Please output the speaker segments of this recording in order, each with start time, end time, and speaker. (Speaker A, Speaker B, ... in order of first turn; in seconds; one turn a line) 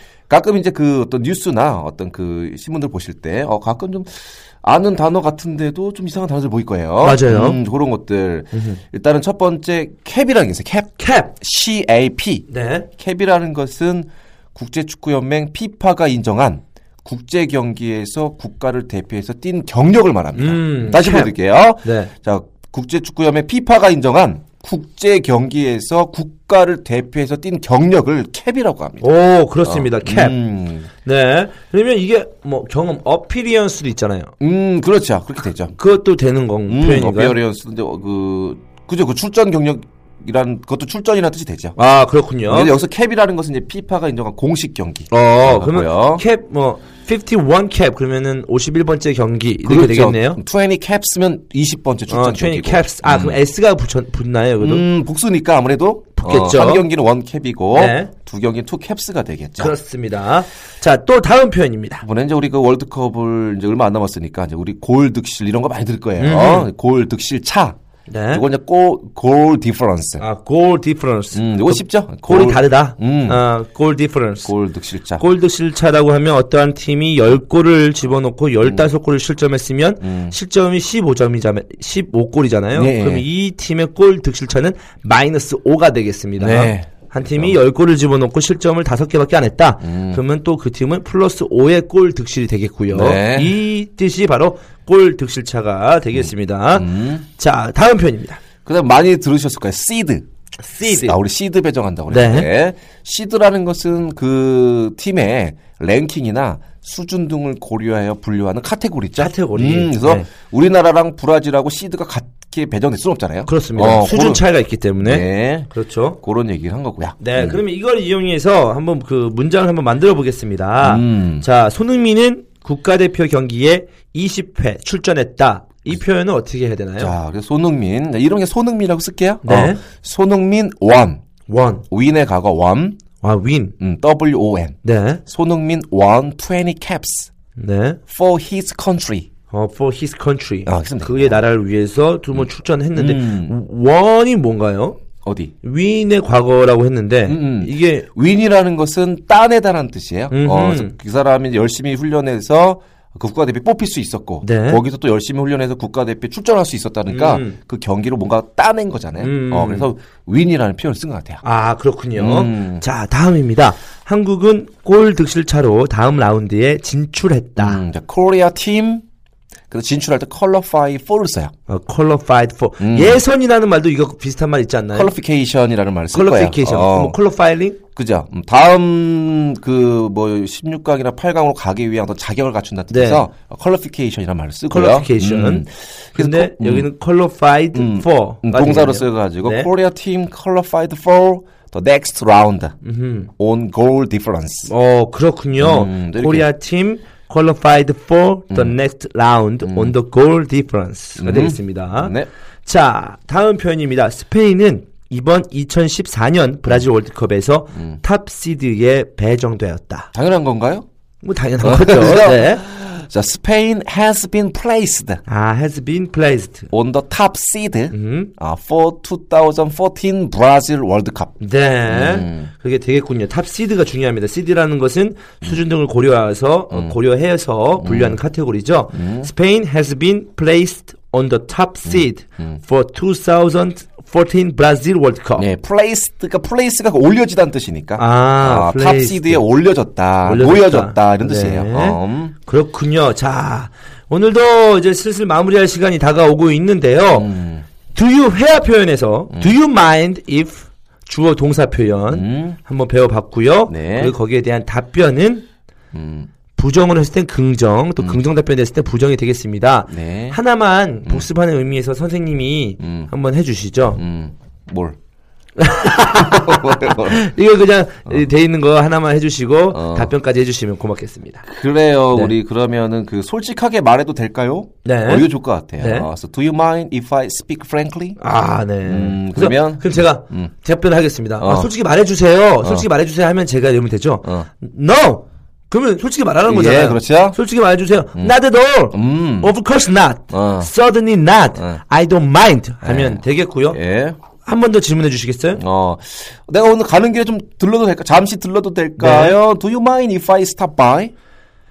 Speaker A: 0.3-29.1
Speaker B: 7.0-7.6
Speaker B: 8.5-8.8
Speaker B: 11.0-11.3
Speaker B: 12.5-12.9
Speaker B: 20.4-21.3
Speaker B: 21.8-22.1
Speaker B: 29.0-30.4
Speaker A: 29.6-30.9
Speaker B: 31.0-34.3
Speaker A: 34.4-35.8
Speaker B: 35.8-37.4
Speaker A: 36.7-41.8
Speaker B: 41.8-42.7
Speaker A: 42.5-46.2
Speaker B: 45.1-50.4
Speaker A: 49.6-53.4
Speaker B: 52.1-54.9
Speaker A: 54.6-59.8
Speaker B: 56.2-56.9
Speaker B: 57.7-58.1
Speaker B: 59.6-62.0
Speaker A: 62.0-67.8
Speaker B: 66.2-66.7
Speaker B: 68.1-68.4
Speaker A: 68.3-70.2
Speaker B: 70.2-74.5
Speaker A: 71.3-73.4
Speaker A: 74.4-75.2
Speaker B: 75.2-98.4
Speaker A: 80.0-80.3
Speaker A: 82.8-83.3
Speaker A: 86.4-87.6
Speaker A: 89.8-90.2
Speaker A: 92.9-93.6
Speaker A: 96.2-97.3
Speaker A: 98.7-100.2
Speaker B: 100.6-101.2
Speaker A: 100.8-114.5
Speaker B: 102.1-102.5
Speaker B: 109.2-110.3
Speaker B: 113.5-116.2
Speaker A: 115.0-117.6
Speaker B: 117.2-127.1
Speaker A: 120.8-121.5
Speaker A: 127.0-131.2
Speaker B: 129.4-129.8
Speaker B: 131.5-131.8
Speaker A: 131.9-133.0
Speaker B: 133.2-133.8
Speaker A: 133.8-137.3
Speaker B: 134.8-135.2
Speaker B: 137.6-138.0
Speaker A: 138.1-139.3
Speaker B: 139.5-145.0
Speaker A: 140.7-141.4
Speaker A: 142.3-143.6
Speaker A: 145.2-145.5
Speaker B: 145.6-148.1
Speaker A: 147.3-161.4
Speaker B: 150.3-150.9
Speaker B: 154.4-154.8
Speaker B: 157.1-157.6
Speaker B: 159.2-159.9
Speaker B: 161.4-167.8
Speaker A: 162.2-162.8
Speaker A: 167.6-169.0
Speaker A: 169.7-171.5
Speaker B: 171.7-175.1
Speaker A: 172.8-173.2
Speaker A: 174.9-177.2
Speaker B: 176.1-177.8
Speaker A: 177.9-186.9
Speaker B: 182.9-183.2
Speaker B: 184.7-189.7
Speaker A: 187.7-192.8
Speaker B: 192.8-193.3
Speaker A: 193.3-194.7
Speaker B: 194.7-202.1
Speaker A: 195.6-196.5
Speaker A: 199.7-199.9
Speaker A: 201.2-202.3
Speaker B: 202.7-210.1
Speaker A: 210.1-210.8
Speaker B: 211.2-212.6
Speaker A: 211.6-215.2
Speaker B: 215.3-216.7
Speaker A: 216.7-222.5
Speaker B: 217.9-218.3
Speaker B: 221.4-235.5
Speaker A: 227.8-228.2
Speaker A: 228.9-229.3
Speaker A: 235.4-242.3
Speaker B: 238.0-239.4
Speaker B: 240.2-247.3
Speaker A: 247.1-247.7
Speaker B: 247.9-255.5
Speaker A: 252.1-252.6
Speaker A: 253.7-254.2
Speaker A: 255.9-256.3
Speaker B: 256.6-264.0
Speaker A: 259.9-260.4
Speaker A: 262.8-263.1
Speaker A: 264.0-265.0
Speaker B: 265.6-271.4
Speaker A: 266.1-267.2
Speaker A: 269.7-270.1
Speaker A: 271.4-278.2
Speaker B: 274.9-276.1
Speaker B: 278.2-293.8
Speaker A: 278.9-280.5
Speaker A: 281.4-281.7
Speaker A: 282.6-282.9
Speaker A: 286.5-287.4
Speaker A: 288.9-289.5
Speaker A: 290.3-290.7
Speaker A: 292.8-294.2
Speaker B: 294.4-295.6
Speaker A: 295.6-301.1
Speaker B: 299.0-299.4